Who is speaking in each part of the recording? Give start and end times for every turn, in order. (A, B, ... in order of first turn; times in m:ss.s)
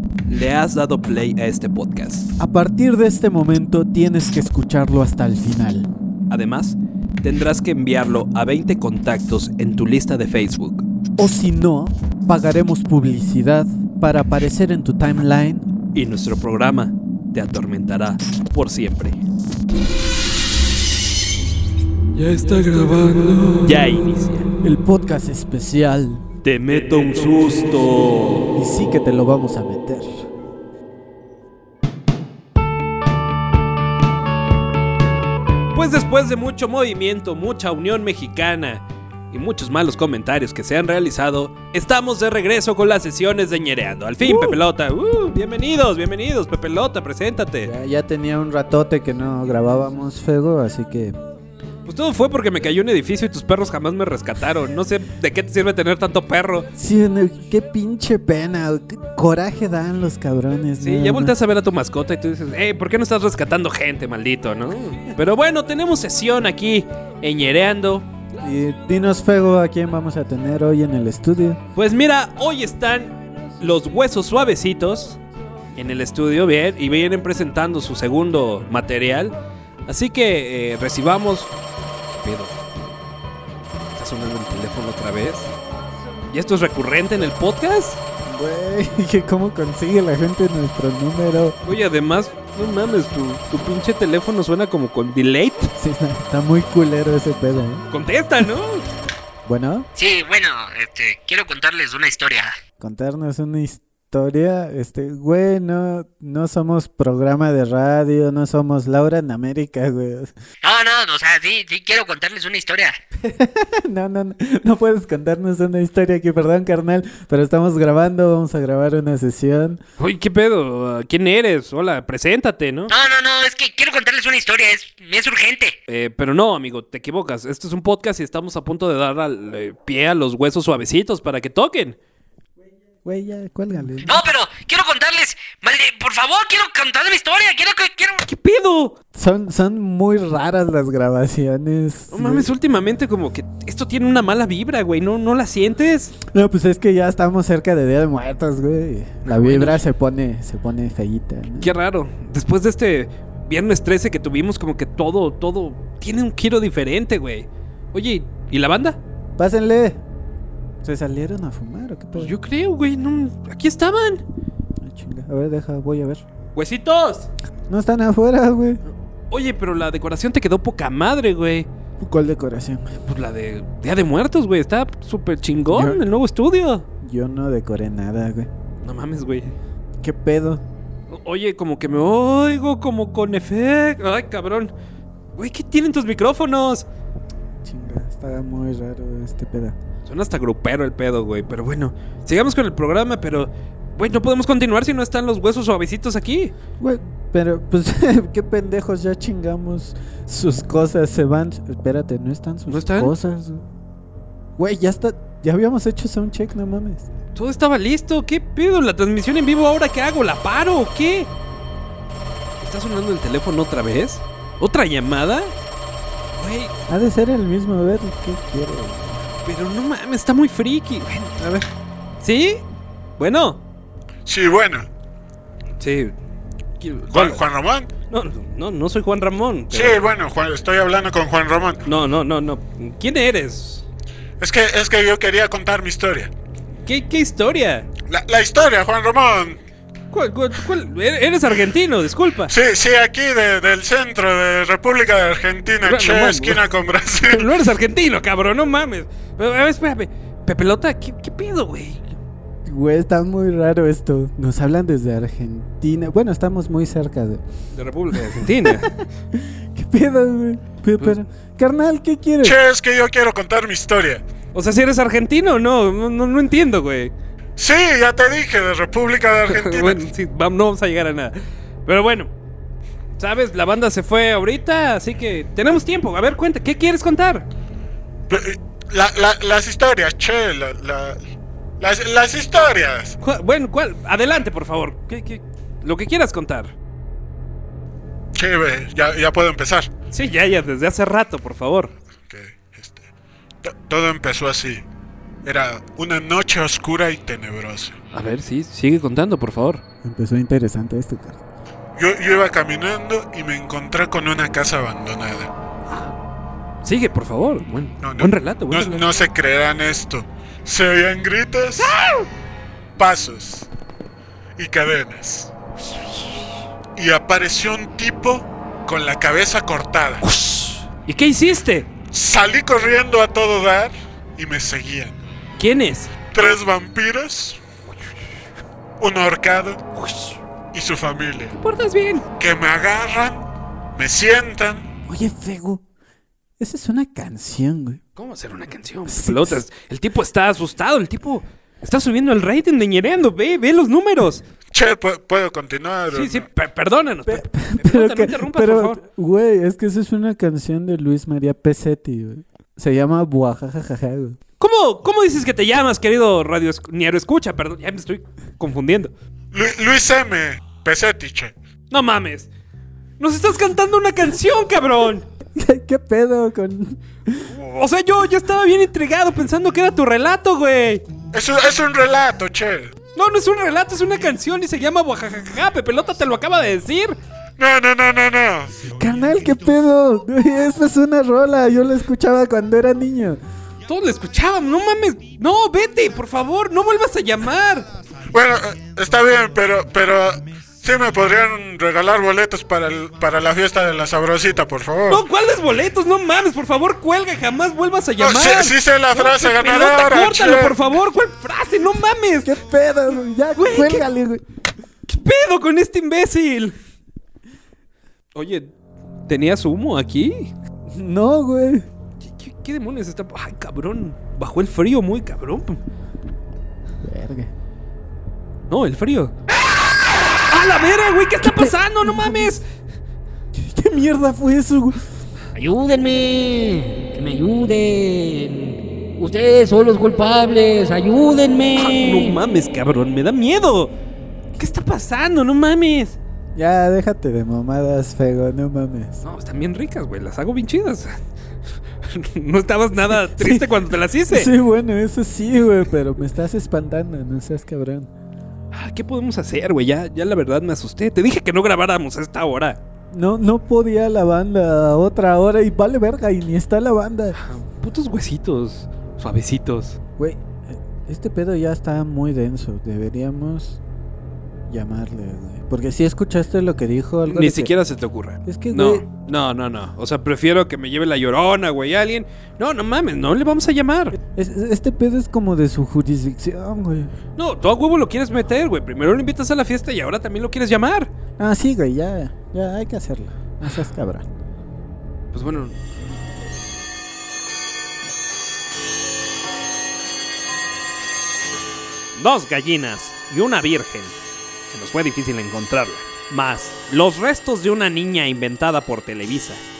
0:00.3-0:02.3 A
0:02.4-0:05.9 B
0:06.3-0:10.9 A
0:11.2-0:15.7 B
0:15.9-0:19.2 A
0:22.2-0:24.5 A
0:24.6-0:26.2 B
0:26.4-0:28.5 A
0:28.5-0:30.3 B
0:35.7-0:47.7 A
0:44.2-0:44.6 B
0:47.6-0:51.2 B
0:51.8-0:56.7 A
0:56.7-1:01.3 B
1:00.8-1:08.1 A
1:08.4-1:11.6 B
1:11.8-1:15.2 A
1:15.8-1:21.5 A
1:22.1-1:22.6 A
1:23.9-1:25.5 A
1:26.3-1:28.0 A
1:28.2-1:31.6 B
1:31.6-1:35.7 A
1:35.8-1:37.8 B
1:37.9-1:38.8 A
1:39.4-1:39.9 B
1:40.0-1:42.6 C
1:42.8-1:50.3 B
1:50.6-1:53.0 C
1:53.2-1:59.8 B
2:00.0-2:02.9 A
2:02.9-2:05.8 C
2:05.9-2:12.0 A
2:13.0-2:14.2 B
2:14.0-2:18.2 C
2:18.2-2:19.0 A
2:19.1-2:22.5 B
2:22.1-2:26.1 A
2:26.2-2:31.7 B
2:29.2-2:29.8 A
2:31.6-2:39.0 A
2:39.4-2:40.0 B
2:40.8-2:42.3 B
2:42.1-2:44.2 A
2:44.8-2:46.2 B
2:46.5-2:47.3 A
2:47.7-2:48.8 B
2:49.3-2:51.7 A
2:52.0-2:53.0 B
2:53.0-2:56.8 A
2:55.6-2:56.0 B
2:57.0-2:58.5 B
2:58.8-2:59.5 A
3:00.0-3:00.6 B
3:01.1-3:04.7 A
3:05.4-3:06.8 A
3:07.6-3:09.8 B
3:10.0-3:16.5 A
3:16.8-3:23.6 B
3:22.7-3:23.1 A
3:24.6-3:27.1 B
3:27.3-3:31.3 A
3:32.6-3:35.5 A
3:36.4-3:36.7 A
3:36.9-3:39.2 B
3:39.4-3:41.4 A
3:41.4-3:41.6 B
3:42.2-3:42.6 A
3:43.2-3:43.6 A
3:44.2-3:44.9 D
3:45.8-3:46.2 A
3:46.8-3:47.4 A
3:47.1-3:47.9 D
3:48.1-3:50.0 A
3:49.7-3:51.8 D
3:51.8-3:53.9 A
3:54.4-3:56.3 D
3:56.8-3:57.9 A
3:58.1-3:59.6 D
4:00.1-4:02.5 A
4:02.5-4:07.5 D
4:05.8-4:06.6 A
4:07.2-4:12.2 A
4:12.6-4:17.4 B
4:17.7-4:18.9 A
4:18.1-4:22.6 B
4:22.4-4:24.2 D
4:24.5-4:27.1 A
4:27.6-4:30.0 D
4:29.5-4:32.3 A
4:33.2-4:37.4 A
4:38.3-4:41.2 D
4:41.8-4:43.2 D
4:43.2-4:46.7 A
4:48.3-4:49.9 D
4:50.1-4:51.9 A
4:52.3-4:53.0 D
4:53.6-4:54.8 D
4:55.4-4:57.9 D
4:58.1-4:59.8 A
5:00.0-5:01.4 B
5:02.0-5:05.5 D
5:05.9-5:06.1 A
5:06.8-5:09.0 A
5:08.0-5:12.0 D
5:11.8-5:12.2 A
5:13.0-5:13.7 D
5:14.6-5:15.5 D
5:17.0-5:20.2 D
5:20.2-5:21.9 A
5:22.1-5:25.2 D
5:25.6-5:26.5 A
5:26.3-5:27.6 D
5:29.0-5:29.8 D
5:29.9-5:30.4 A
5:30.7-5:31.6 D
5:31.6-5:32.2 A
5:32.4-5:34.9 D
5:35.1-5:35.8 B
5:36.6-5:38.0 B
5:38.2-5:44.4 A
5:39.0-5:39.6 B
5:44.7-5:46.5 D
5:46.1-5:49.0 A
5:47.3-5:54.4 B
5:54.6-5:59.1 A
5:59.5-6:01.5 D
6:01.9-6:02.5 A
6:03.2-6:05.2 A
6:05.5-6:07.4 B
6:07.4-6:11.0 A
6:11.3-6:12.9 D
6:13.1-6:17.2 A
6:17.6-6:18.8 D
6:18.9-6:23.4 B
6:23.9-6:27.9 A
6:28.3-6:35.2 D
6:35.1-6:42.5 A
6:38.2-6:40.8 D
6:42.4-6:44.4 B
6:43.6-6:44.0 A
6:45.1-6:46.8 A
6:48.3-6:48.7 A
6:49.3-6:50.5 A
6:50.9-6:51.9 B
6:52.2-6:55.8 A
6:57.0-6:57.5 B
6:58.7-6:59.4 A
7:00.3-7:02.6 A
7:01.4-7:02.5 B
7:03.5-7:05.0 B
7:05.5-7:12.4 E
7:11.7-7:13.9 A
7:14.6-7:16.2 A
7:16.5-7:19.2 B
7:19.2-7:21.2 A
7:22.0-7:24.5 A
7:23.1-7:23.7 B
7:24.3-7:28.1 B
7:28.7-7:32.8 A
7:33.1-7:37.4 B
7:37.3-7:40.0 A
7:40.2-7:43.8 B
7:44.7-7:47.7 B
7:47.2-7:54.2 A
7:48.4-7:49.0 B
7:54.2-7:57.1 B
7:57.4-8:01.1 A
8:01.4-8:04.2 B
8:05.3-8:05.8 A
8:12.1-8:14.2 A
8:14.7-8:19.6 A